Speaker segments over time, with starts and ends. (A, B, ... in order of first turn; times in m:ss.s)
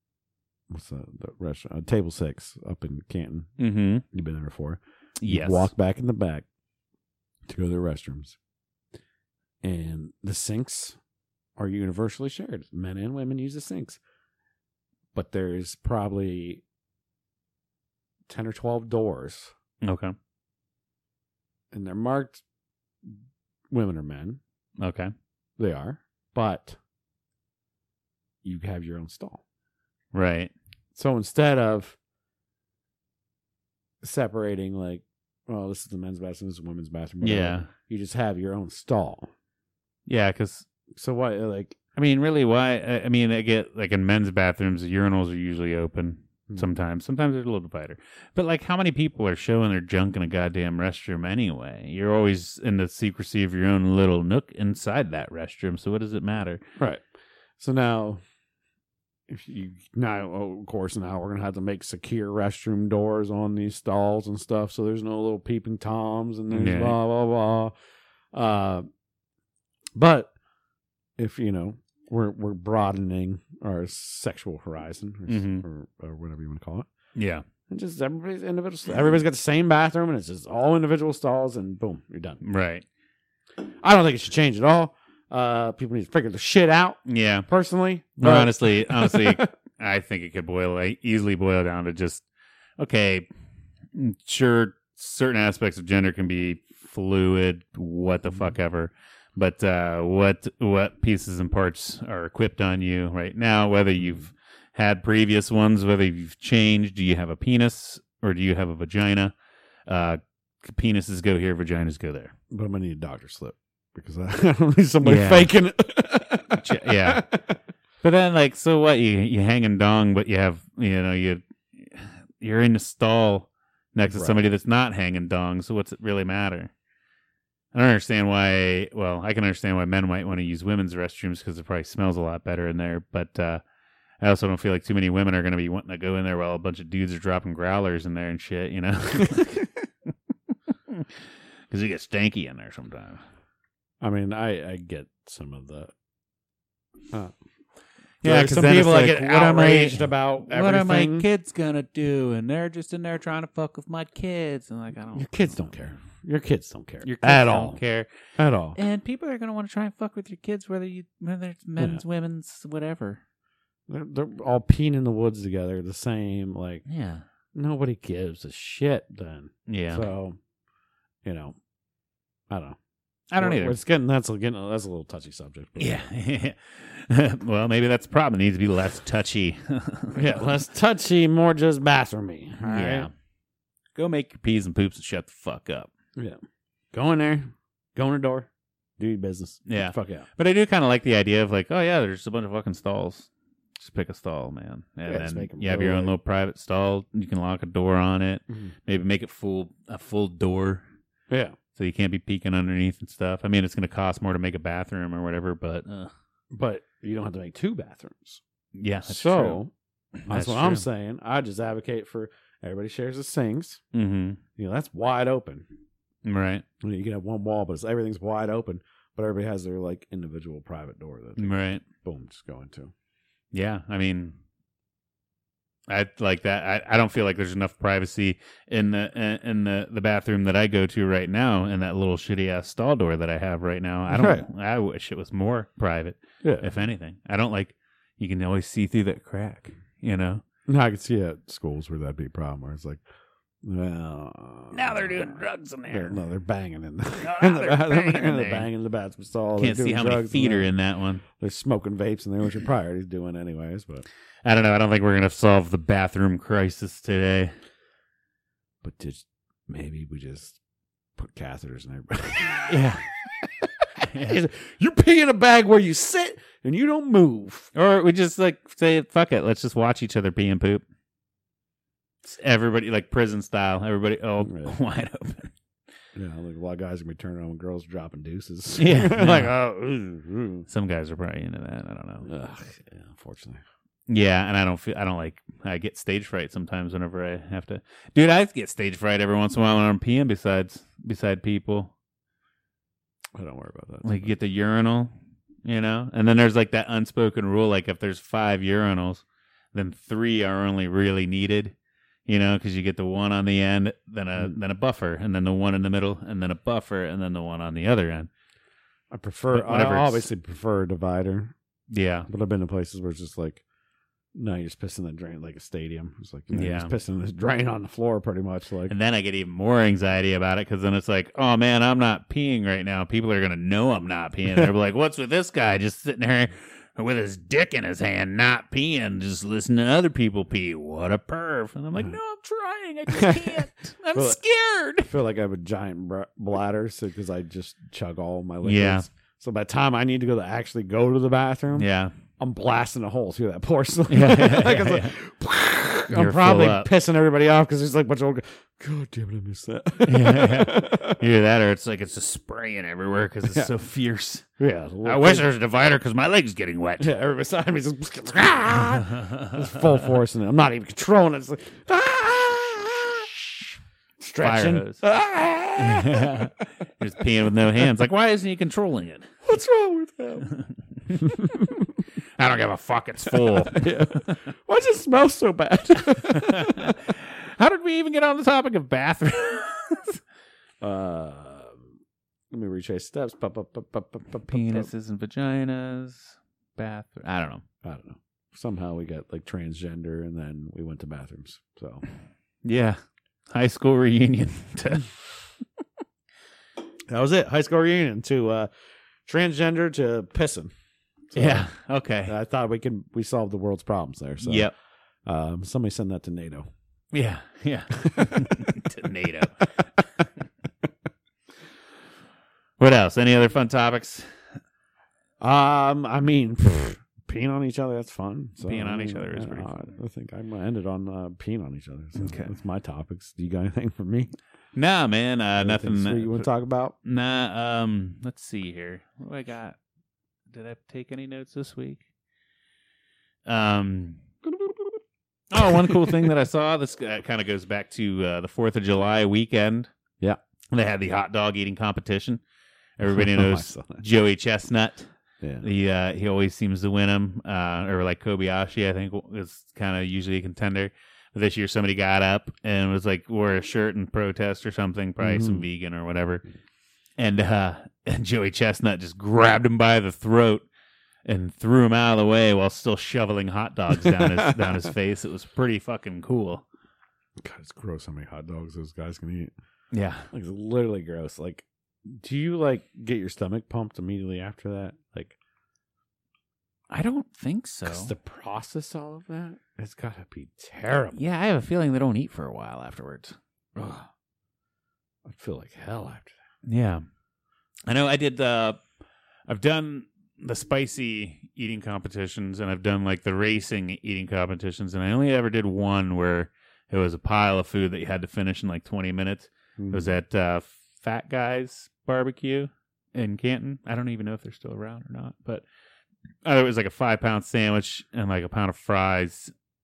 0:00.7-0:03.5 A
0:03.6-0:04.0 B
0:04.1-0:06.4 A
0:05.2-0:05.7 B
0:07.5-0:08.4 A
0:09.6-0:11.0 A
0:11.6-0:14.0 A
0:15.1-0:16.6 A
0:18.3-0:19.5 A
0:19.8-0:20.1 B
0:21.7-0:22.4 A
0:23.7-0:24.4 A
0:24.8-0:25.1 B
0:25.6-0:26.8 A
0:28.4-0:29.4 A
0:30.1-0:30.5 B
0:30.9-0:32.0 A
0:34.0-0:39.3 A
0:37.2-0:37.7 B
0:40.1-0:40.7 B
0:40.9-0:41.8 A
0:41.9-0:56.6 B
0:56.8-0:57.0 A
0:57.6-0:58.2 A
0:59.3-1:07.7 A
1:06.5-1:07.0 B
1:08.3-1:08.9 A
1:09.9-1:10.3 A
1:11.2-1:16.9 A
1:15.3-1:15.6 B
1:17.2-1:17.4 B
1:17.7-1:22.4 A
1:22.4-1:22.8 B
1:23.6-1:29.5 A
1:27.0-1:27.4 B
1:28.2-1:32.2 B
1:32.8-1:33.3 B
1:33.9-1:49.3 B
1:44.0-1:44.2 A
1:49.9-1:52.3 B
1:52.5-1:57.6 A
1:55.0-1:55.5 B
1:56.6-1:57.2 B
1:58.0-2:06.7 B
2:04.1-2:04.4 A
2:07.7-2:13.6 B
2:14.2-2:19.7 B
2:21.7-2:23.2 B
2:24.0-2:25.9 A
2:28.2-2:31.3 A
2:28.2-2:35.7 B
2:35.1-2:37.8 A
2:37.0-2:38.1 B
2:38.4-2:38.8 A
2:38.7-2:43.2 B
2:41.8-2:42.0 A
2:43.9-2:46.8 A
2:46.8-2:47.2 B
2:47.5-2:50.4 A
2:49.7-2:50.1 B
2:51.2-2:51.6 A
2:52.5-2:52.8 A
2:53.3-2:53.8 B
2:53.4-2:56.0 A
2:55.8-3:00.5 B
3:00.1-3:03.1 A
3:02.6-3:03.1 B
3:04.0-3:05.9 B
3:06.9-3:10.3 A
3:09.7-3:20.8 B
3:15.1-3:16.1 A
3:21.3-3:21.6 A
3:21.7-3:26.1 B
3:26.5-3:28.4 A
3:28.7-3:29.6 B
3:29.0-3:29.7 A
3:30.2-3:30.8 B
3:30.3-3:33.8 A
3:33.9-3:34.4 B
3:34.6-3:35.7 A
3:36.2-3:36.6 B
3:36.8-3:42.9 A
3:41.4-3:41.8 B
3:43.5-3:44.4 B
3:45.9-4:00.4 B
3:54.1-3:54.4 A
3:56.4-3:56.7 A
4:00.7-4:03.0 A
4:03.6-4:10.7 A
4:04.7-4:06.2 B
4:07.2-4:08.7 B
4:09.6-4:11.2 B
4:11.3-4:14.0 A
4:14.4-4:17.5 B
4:18.8-4:20.6 A
4:21.2-4:27.7 A
4:22.7-4:23.0 B
4:24.0-4:24.4 B
4:27.7-4:30.8 B
4:32.2-4:35.5 B
4:34.4-4:34.8 A
4:36.1-4:40.6 A
4:38.8-4:39.6 B
4:40.7-4:42.3 B
4:42.2-4:43.6 A
4:44.1-4:51.9 B
4:53.3-4:54.3 A
4:54.0-4:55.1 B
4:55.6-5:01.7 B
5:02.3-5:08.3 B
5:09.1-5:11.5 A
5:09.5-5:10.2 B
5:11.9-5:12.3 B
5:12.3-5:13.6 A
5:14.3-5:18.9 A
5:16.5-5:16.9 B
5:18.9-5:35.1 B
5:33.1-5:33.6 A
5:34.1-5:34.4 A
5:35.0-5:51.2 A
5:38.6-5:39.0 B
5:41.7-5:42.1 B
5:44.1-5:45.2 B
5:46.1-5:46.9 B
5:50.0-5:54.4 B
5:54.6-5:55.5 A
5:55.0-5:57.1 B
5:57.0-6:03.4 A
5:59.0-5:59.6 B
6:04.2-6:06.5 A
6:04.4-6:05.0 B
6:05.8-6:09.3 B
6:09.4-6:10.5 A
6:10.4-6:11.3 B
6:11.1-6:12.0 A
6:12.4-6:14.4 B
6:13.3-6:17.0 A
6:16.1-6:20.2 B
6:20.8-6:21.9 A
6:22.5-6:24.9 A
6:24.5-6:27.6 B
6:27.8-6:32.0 A
6:32.6-6:33.0 B
6:33.5-6:35.1 B
6:37.1-6:38.7 A
6:39.2-6:40.7 A
6:41.3-6:41.7 A
6:41.3-6:42.3 B
6:42.2-6:44.7 A
6:44.4-6:44.7 B
6:45.2-6:46.6 A
6:47.1-6:49.7 B
6:48.0-6:48.8 A
6:52.8-6:54.2 B
6:55.4-7:04.3 A
6:58.6-6:59.8 B
7:02.2-7:02.5 B
7:04.7-7:06.5 B
7:05.6-7:07.0 A
7:07.0-7:09.8 B
7:10.5-7:12.0 B
7:13.4-7:14.2 B
7:14.4-7:15.0 A
7:15.5-7:19.9 B
7:15.5-7:16.3 A
7:20.7-7:22.4 B
7:23.0-7:25.1 B
7:23.0-7:24.0 A
7:25.4-7:25.7 A
7:25.6-7:36.4 B
7:35.2-7:35.7 A
7:37.2-7:40.6 B
7:41.2-7:46.6 B
7:44.0-7:44.9 A
7:47.4-7:49.5 A
7:49.9-7:50.3 B
7:50.3-7:55.4 A
7:56.9-7:58.1 B
7:57.8-8:01.2 A
8:01.1-8:03.4 B
8:03.8-8:04.1 A
8:05.2-8:06.4 A
8:06.6-8:07.0 B
8:07.9-8:08.8 B
8:09.5-8:25.6 B
8:19.8-8:20.1 A
8:26.4-8:29.5 B